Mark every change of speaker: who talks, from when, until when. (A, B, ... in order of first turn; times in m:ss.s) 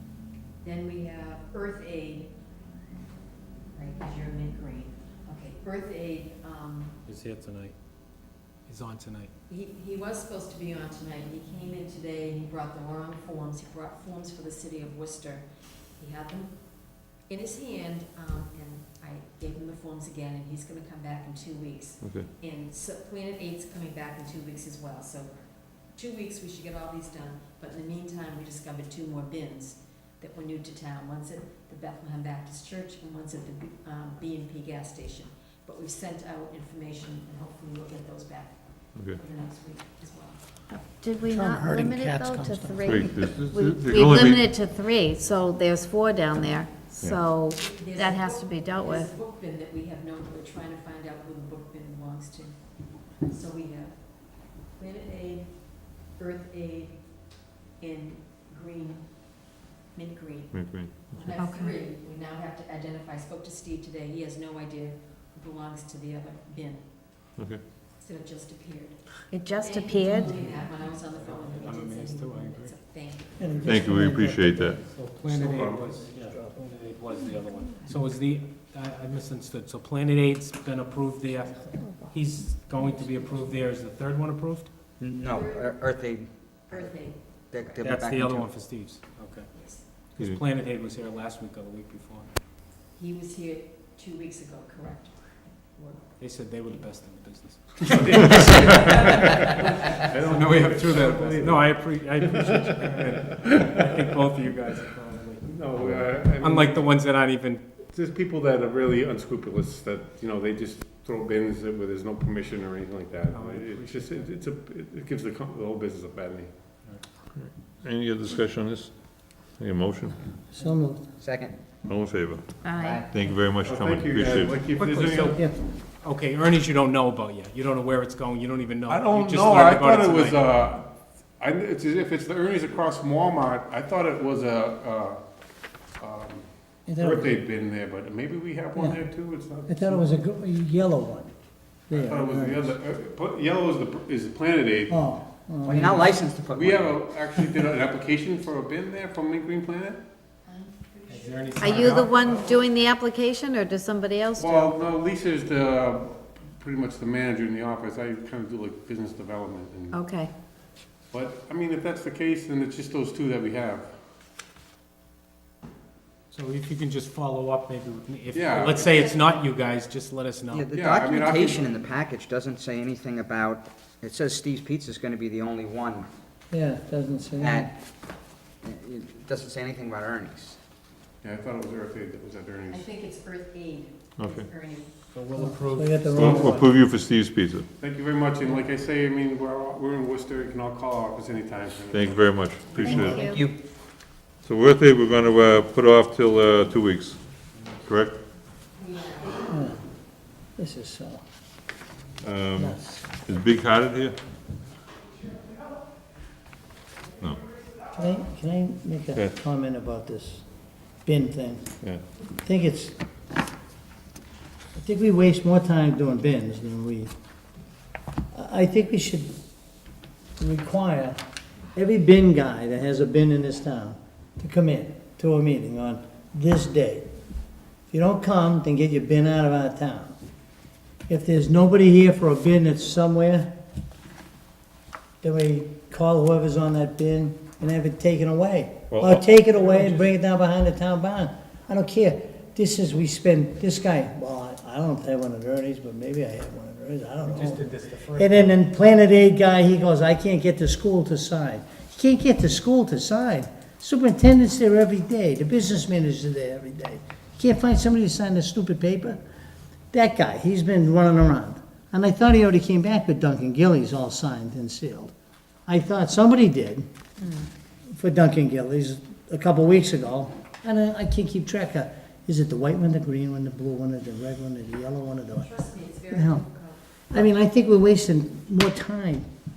0:00.6-0:02.3 A
0:03.7-0:07.0 A
0:07.0-0:07.7 B
0:08.6-0:09.3 B
0:09.5-0:40.4 A
0:22.0-0:22.3 C
0:38.9-0:39.2 C
0:40.7-0:49.1 D
0:41.2-0:42.9 E
0:42.9-0:44.5 C
0:47.5-1:07.2 A
1:00.5-1:01.3 C
1:01.3-1:01.8 D
1:07.4-1:07.6 C
1:08.0-1:13.7 A
1:09.3-1:10.4 D
1:10.2-1:12.8 B
1:13.4-1:16.6 E
1:13.6-1:14.8 C
1:14.7-1:24.7 B
1:15.4-1:15.9 F
1:25.0-1:28.5 G
1:25.2-1:26.1 A
1:26.7-1:27.2 A
1:27.8-1:32.3 B
1:29.5-1:29.8 A
1:32.9-1:36.0 A
1:36.2-1:47.7 B
1:39.9-1:43.8 F
1:45.4-1:46.9 F
1:47.8-1:56.5 F
1:53.3-1:54.3 B
1:57.4-2:00.2 C
2:00.5-2:01.1 E
2:01.2-2:01.6 G
2:01.8-2:02.5 C
2:02.6-2:03.0 D
2:02.8-2:03.1 G
2:03.1-2:04.6 C
2:03.6-2:05.4 F
2:04.7-2:10.6 B
2:05.2-2:05.6 E
2:08.9-2:15.2 F
2:16.0-2:20.1 F
2:16.9-2:17.4 E
2:18.8-2:19.0 E
2:19.7-2:21.3 E
2:21.9-2:22.8 E
2:21.9-2:25.1 F
2:24.9-2:26.3 E
2:25.6-2:27.0 G
2:26.5-2:30.0 F
2:30.4-2:32.4 A
2:31.1-2:32.2 B
2:31.6-2:34.8 D
2:31.7-2:32.6 F
2:34.4-2:40.0 F
2:39.9-2:40.3 D
2:41.1-2:44.0 F
2:46.3-2:50.7 B
2:48.3-2:49.1 F
2:48.8-2:49.4 A
2:50.5-2:56.1 G
2:50.7-2:51.8 F
2:56.5-2:57.7 E
2:57.4-2:57.8 G
2:58.6-3:00.6 G
3:01.2-3:02.9 F
3:02.7-3:04.9 A
3:04.2-3:04.5 C
3:05.1-3:06.6 B
3:05.3-3:06.7 E
3:06.1-3:07.7 C
3:07.8-3:12.3 F
3:11.9-3:13.3 C
3:12.7-3:13.4 A
3:12.9-3:13.4 D
3:12.9-3:13.6 G
3:14.4-3:18.2 C
3:18.8-3:19.4 A
3:19.5-3:19.8 E
3:20.6-3:21.2 E
3:22.2-3:24.2 C
3:22.6-3:23.1 E
3:27.9-3:30.5 E
3:31.0-3:31.7 E
3:32.4-3:33.0 E
3:34.8-3:37.1 E
3:38.3-3:39.3 E
3:40.4-3:41.2 E
3:41.8-3:47.1 E
3:47.9-3:50.2 E
3:51.1-3:53.5 E
3:55.2-4:19.2 E
3:58.9-3:59.3 C
3:59.7-4:00.1 B
4:07.2-4:08.6 B
4:19.9-4:25.1 E
4:25.7-4:26.9 E
4:27.9-4:35.5 E
4:35.4-4:37.3 A
4:36.1-4:36.5 E
4:37.1-4:39.3 E